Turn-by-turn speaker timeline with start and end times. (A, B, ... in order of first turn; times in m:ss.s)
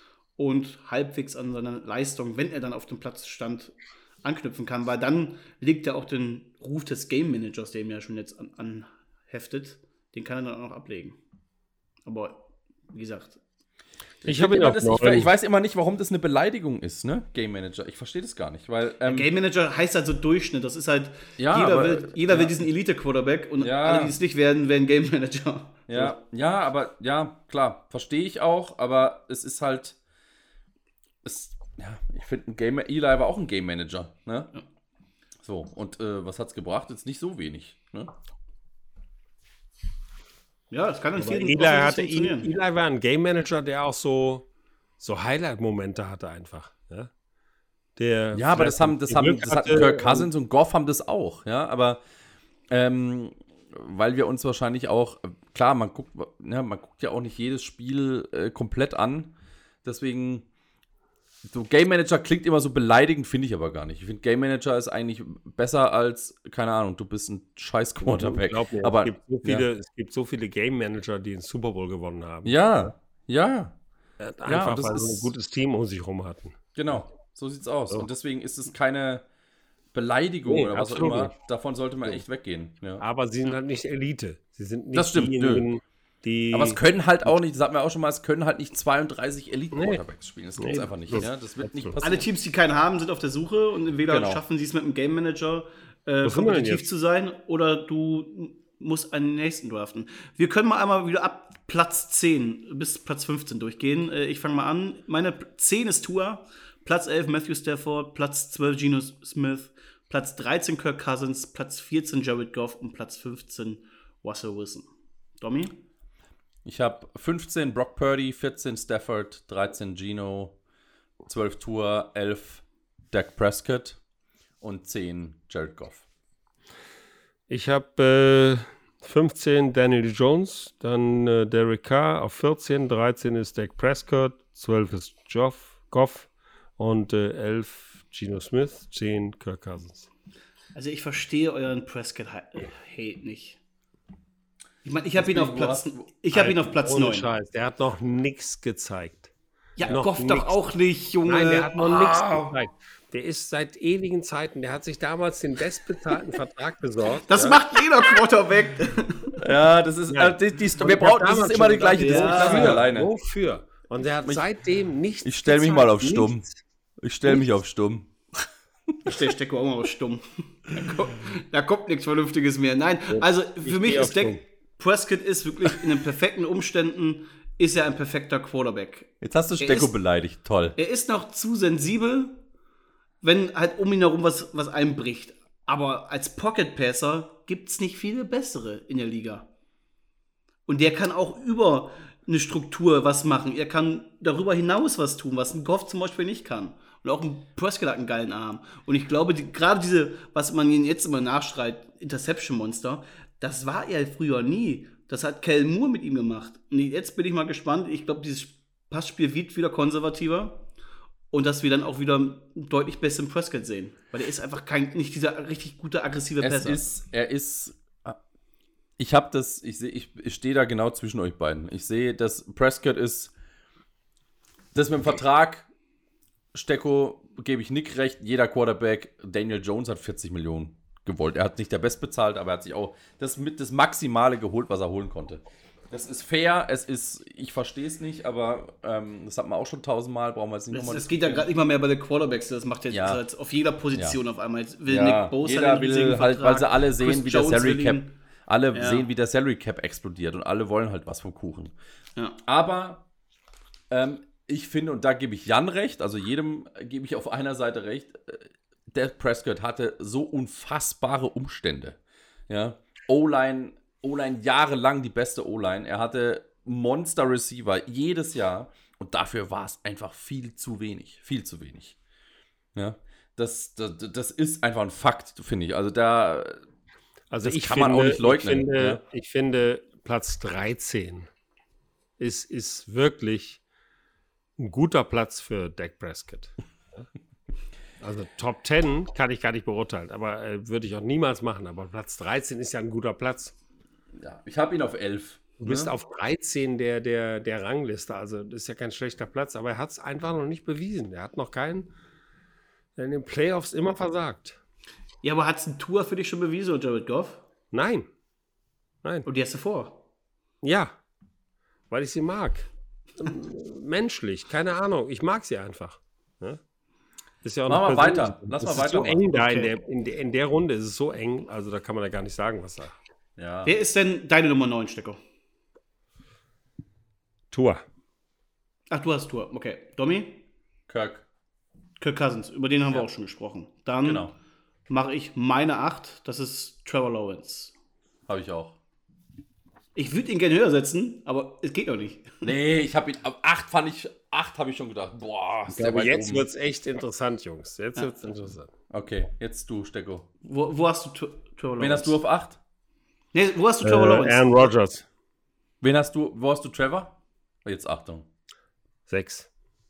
0:00.4-0:11.2 A
0:12.0-0:13.4 A
0:14.2-0:19.3 B
0:14.2-0:15.3 C
0:19.0-0:26.2 A
0:21.4-0:22.6 B
0:23.6-0:24.2 B
0:25.9-0:30.0 B
0:31.2-0:34.5 B
0:35.4-0:38.1 B
0:40.7-0:42.5 A
0:41.2-0:44.5 C
0:45.0-0:47.1 C
0:48.0-0:50.3 C
0:48.3-0:52.0 B
0:52.7-1:00.4 B
1:01.5-1:09.7 B
1:08.0-1:12.9 C
1:12.4-1:13.7 B
1:14.2-1:16.6 C
1:14.4-1:15.3 B
1:16.8-1:19.2 B
1:19.9-1:23.0 B
1:20.4-1:21.3 C
1:23.0-1:26.8 C
1:24.9-1:25.7 B
1:26.5-1:32.3 B
1:29.7-1:30.0 C
1:30.6-1:32.0 C
1:32.0-1:54.9 A
1:34.1-1:34.4 B
1:36.2-1:36.8 C
1:55.4-1:55.8 A
1:56.6-2:00.5 B
2:01.2-2:04.0 B
2:04.6-2:06.0 B
2:07.5-2:20.1 C
2:20.7-2:23.6 A
2:24.8-2:27.2 A
2:25.2-2:26.1 B
2:26.3-2:29.3 C
2:29.8-2:32.1 A
2:29.8-2:30.6 C
2:31.2-2:37.6 C
2:31.9-2:32.3 B
2:37.3-2:39.4 A
2:39.4-2:43.1 B
2:40.1-2:46.5 C
2:42.0-2:42.8 A
2:45.2-2:46.5 B
2:47.0-2:48.4 B
2:49.0-3:00.0 A
2:53.1-2:54.4 C
2:59.2-3:00.8 B
3:00.8-3:02.4 A
3:03.2-3:09.5 A
3:10.7-3:30.6 A
3:31.3-3:36.8 A
3:36.4-3:38.2 B
3:39.0-3:43.3 B
3:44.7-3:45.6 B
3:46.5-4:01.5 B
4:00.7-4:08.2 A
4:02.9-4:03.2 B
4:04.9-4:11.7 B
4:08.7-4:09.1 A
4:12.4-4:13.0 B
4:13.9-4:22.0 B
4:22.5-4:31.9 B
4:32.8-4:36.6 B
4:37.3-4:41.3 C
4:37.4-4:39.0 B
4:42.2-4:43.6 C
4:44.6-4:47.0 C
4:48.0-4:53.5 C
4:54.2-4:55.9 B
4:55.6-5:01.9 C
5:03.0-5:04.6 C
5:05.2-5:07.4 A
5:07.7-5:08.1 C
5:09.2-5:10.0 A
5:10.6-5:10.9 C
5:11.9-5:16.6 C
5:17.4-5:23.0 C
5:17.7-5:19.7 B
5:23.4-5:23.7 B
5:23.6-5:25.2 A
5:27.5-5:27.8 C
5:28.9-5:30.4 A
5:30.9-5:31.2 B
5:32.0-5:34.3 A
5:34.0-5:34.3 B
5:34.9-5:37.7 A
5:38.3-5:38.7 B
5:40.0-5:42.5 A
5:42.4-5:46.4 B
5:45.7-5:48.7 C
5:48.9-5:50.3 B
5:50.4-5:52.2 A
5:51.8-5:52.6 B
5:53.3-5:54.7 A
5:53.8-5:55.0 C
5:55.8-5:57.1 B
5:57.6-5:58.2 B
5:59.1-5:59.5 C